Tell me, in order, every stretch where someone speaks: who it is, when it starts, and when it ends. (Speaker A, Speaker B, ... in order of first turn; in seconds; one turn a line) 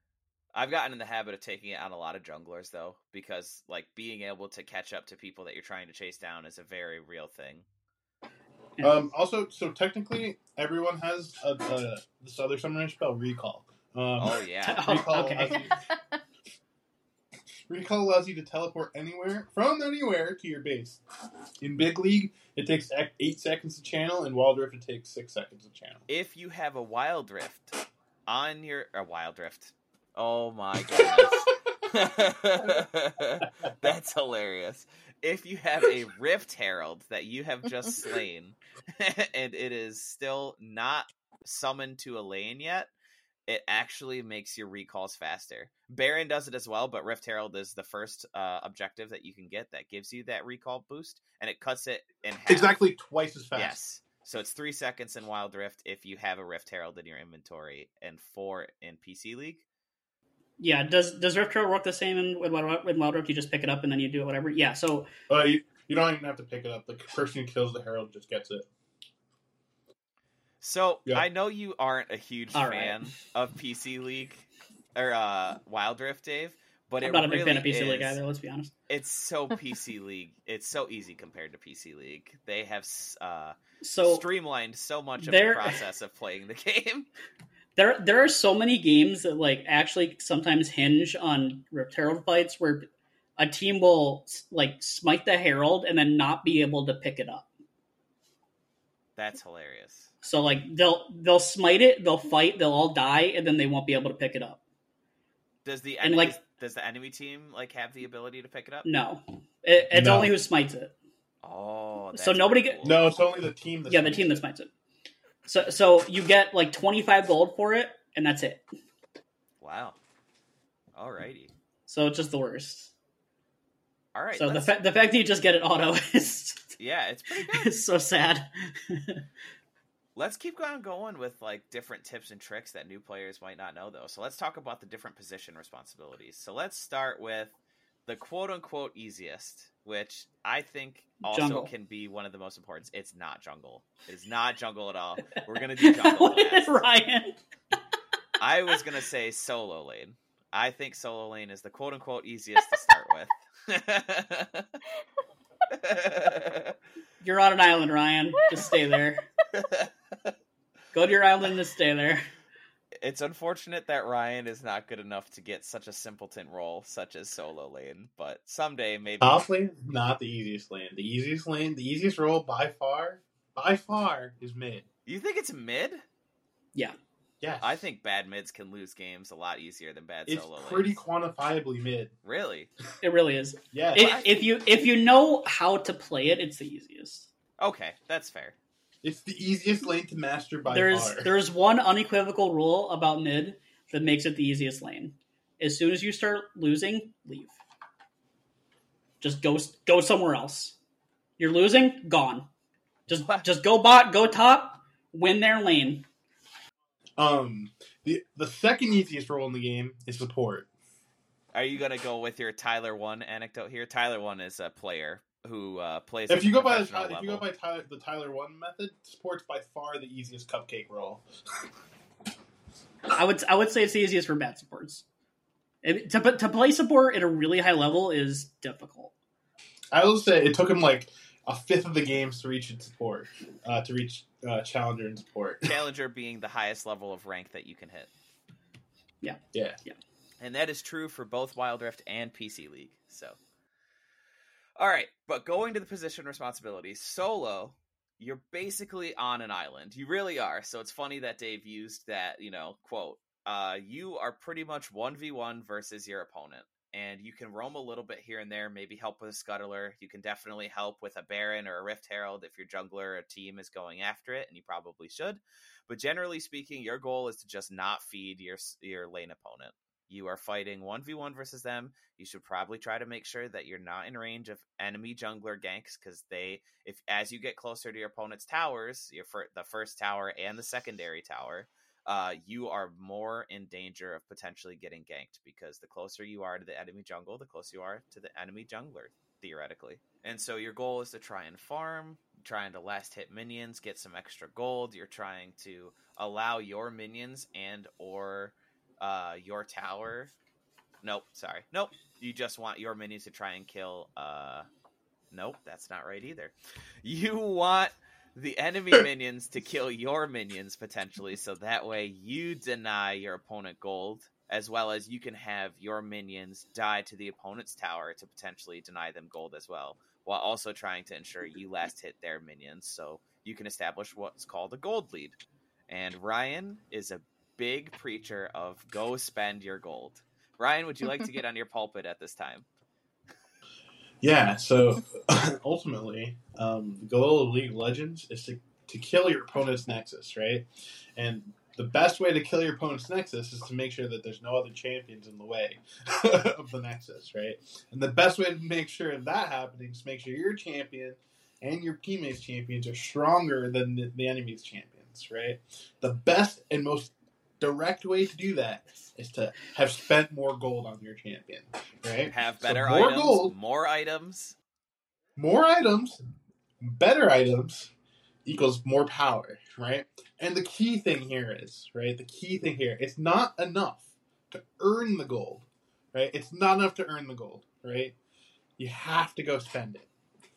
Speaker A: 0.5-7.7
Speaker B: 8.8-9.0
Speaker C: 8.8-15.8
Speaker A: 14.2-14.9
Speaker B: 14.6-15.6
Speaker C: 17.7-21.0
Speaker C: 21.6-26.1
Speaker A: 26.1-42.9
Speaker A: 43.5-52.8
Speaker C: 52.5-53.8
Speaker A: 53.5-59.6
Speaker B: 60.6-65.1
Speaker C: 65.3-68.7
Speaker A: 70.6-78.2
Speaker B: 72.5-73.1
Speaker B: 77.0-78.7
Speaker A: 78.9-87.1
Speaker B: 83.8-84.2
Speaker B: 85.2-85.8
Speaker B: 87.8-97.5
Speaker A: 99.2-100.1
Speaker B: 100.2-104.6
Speaker A: 105.6-108.9
Speaker B: 106.0-106.4
Speaker B: 108.8-110.9
Speaker C: 109.9-110.3
Speaker A: 111.4-113.1
Speaker B: 112.1-112.8
Speaker C: 112.8-114.4
Speaker B: 113.9-114.7
Speaker B: 115.5-118.7
Speaker A: 119.6-120.0
Speaker A: 120.9-121.5
Speaker B: 121.9-122.9
Speaker A: 124.1-124.8
Speaker B: 124.3-126.8
Speaker A: 126.8-127.7
Speaker B: 127.3-129.2
Speaker A: 130.2-137.5
Speaker A: 138.1-146.8
Speaker B: 141.2-141.7
Speaker B: 145.8-147.3
Speaker A: 148.4-154.8
Speaker A: 155.7-156.7
Speaker B: 157.2-159.2
Speaker A: 159.5-160.3
Speaker B: 160.9-162.3
Speaker A: 163.0-169.4
Speaker C: 169.2-174.8
Speaker A: 175.1-176.0
Speaker C: 177.4-177.8
Speaker A: 177.6-181.0
Speaker C: 180.3-182.1
Speaker A: 182.2-182.7
Speaker B: 183.0-187.3
Speaker C: 183.7-184.1
Speaker A: 183.9-184.3
Speaker A: 187.6-188.6
Speaker C: 189.0-191.3
Speaker B: 190.7-197.6
Speaker B: 199.2-200.8
Speaker B: 201.4-202.5
Speaker B: 203.1-206.1
Speaker A: 203.1-203.4
Speaker C: 207.2-210.7
Speaker A: 211.5-217.4
Speaker C: 216.3-221.2
Speaker B: 223.1-225.0
Speaker B: 225.8-229.1
Speaker C: 229.9-235.7
Speaker A: 235.6-238.1
Speaker B: 239.2-240.0
Speaker C: 239.5-239.8
Speaker A: 240.4-243.4
Speaker A: 244.8-300.3
Speaker A: 301.0-304.7
Speaker A: 305.3-332.6
Speaker C: 334.2-363.5
Speaker A: 362.3-364.6
Speaker C: 365.4-366.2
Speaker C: 366.8-367.9
Speaker C: 368.4-378.1
Speaker C: 378.8-380.1